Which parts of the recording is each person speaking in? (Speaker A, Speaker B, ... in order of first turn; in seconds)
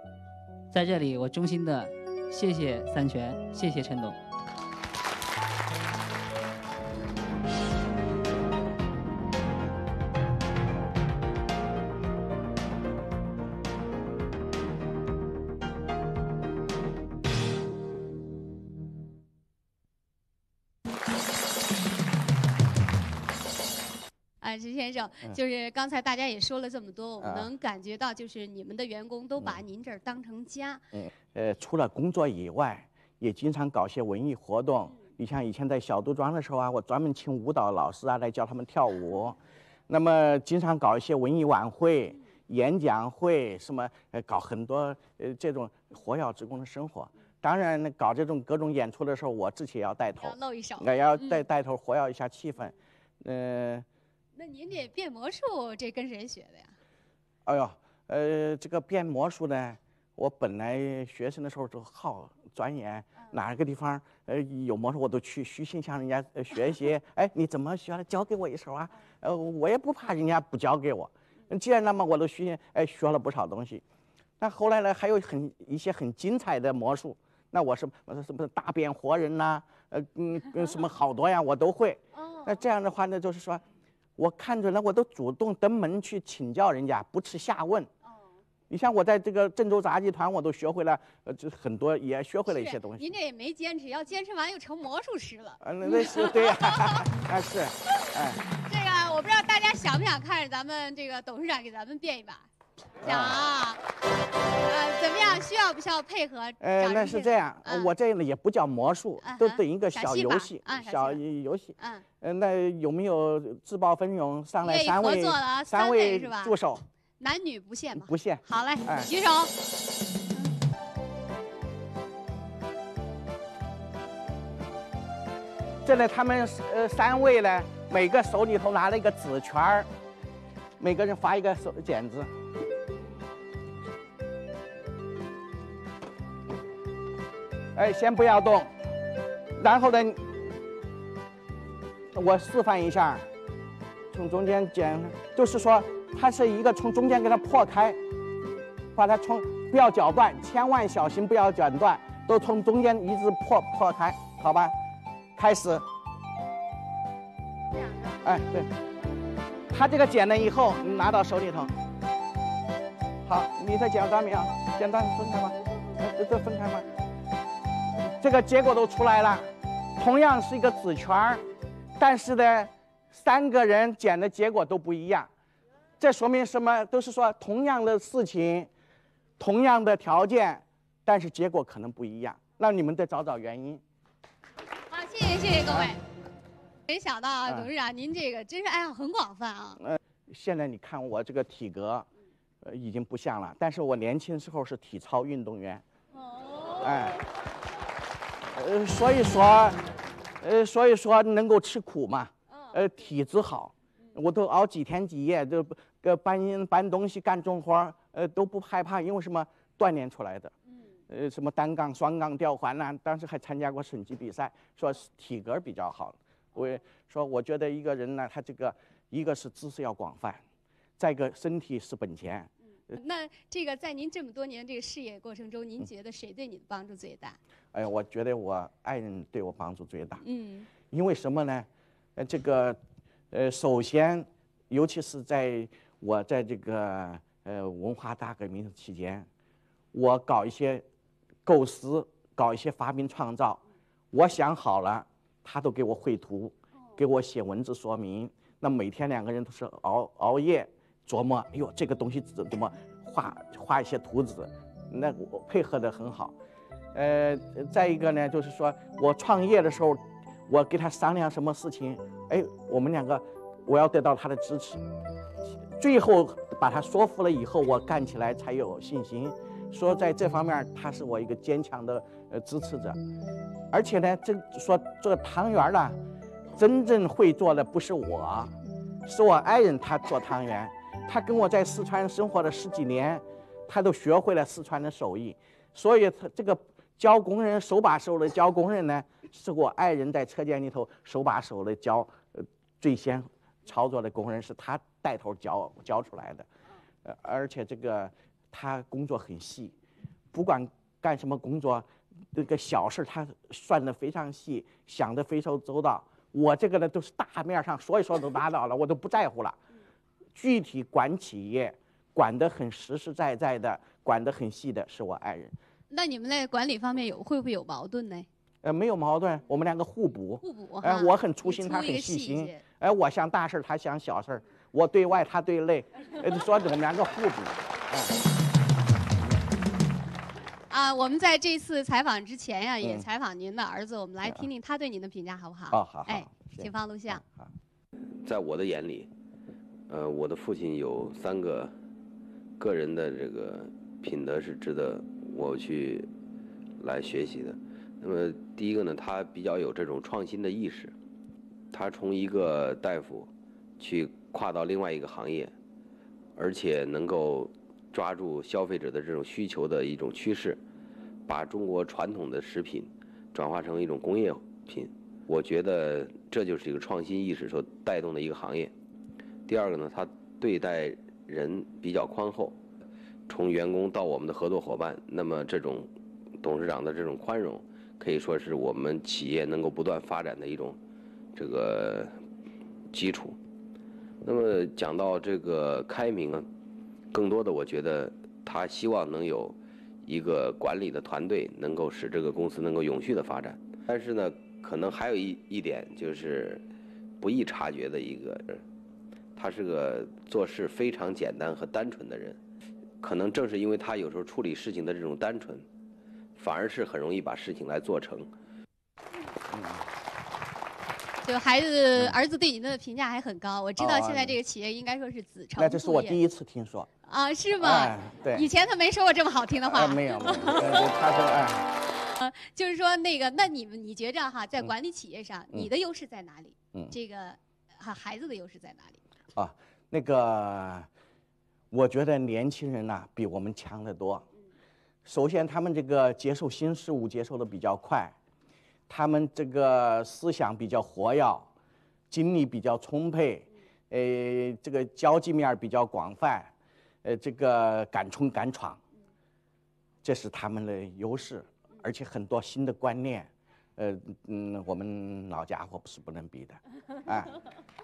Speaker A: 0.7-4.2
Speaker B: 24.4-30.9, 50.2-51.5, 54.4-56.8, 82.1-82.6, 92.5-97.1, 98.5-102.5, 103.0-103.8, 104.6-107.9, 109.2-111.2, 111.8-112.0, 114.6-116.6, 117.2-119.5, 184.9-186.0, 186.9-189.8, 196.2-197.1, 222.9-227.4, 230.2-230.7, 315.9-318.3, 320.4-322.6, 330.7-337.2, 411.2-416.2, 417.1-420.9, 421.9-429.0
Speaker C: 27.2-27.5, 30.9-39.4, 39.9-53.9, 57.5-73.8, 74.4-83.6, 84.2-87.9, 88.7-93.1, 95.6-98.4, 103.0-103.5, 106.6-116.8, 118.0-119.1, 125.8-129.9, 130.8-132.3, 137.8-138.7, 139.6-140.3, 142.1-143.3, 144.1-148.0, 148.9-154.8, 155.4-155.9, 158.2-158.7, 159.7-161.7, 163.3-166.9, 168.0-171.4, 172.0-175.3, 176.0-178.7, 179.4-183.8, 189.8-192.1, 192.6-195.8, 196.8-197.2, 198.5-199.8, 200.4-210.5, 211.1-220.4, 221.0-222.5, 227.7-230.2, 230.9-232.8, 233.3-239.3, 239.9-240.8, 241.5-243.6, 244.1-256.4, 256.9-264.8, 265.8-273.0, 273.7-276.0, 276.6-278.5, 279.1-296.5, 297.0-299.7, 300.3-309.6, 310.4-315.6, 318.6-328.2, 332.8-333.1, 335.7-337.5, 409.5-409.8, 413.8-414.4, 415.6-416.9, 417.6-418.5, 419.7-421.7, 429.4-430.9, 431.7-434.3, 435.1-438.1, 438.9-441.5, 442.1-446.5, 447.0-448.8, 450.0-457.4
Speaker D: 338.2-339.1, 339.9-341.7, 342.6-346.1, 346.8-350.9, 351.7-355.5, 356.4-360.6, 361.3-368.7, 369.5-372.6, 373.3-375.9, 376.4-380.8, 381.4-382.1, 382.9-383.4, 384.2-386.5, 387.1-396.6, 397.2-398.6, 399.4-402.4, 403.0-405.6, 406.4-408.3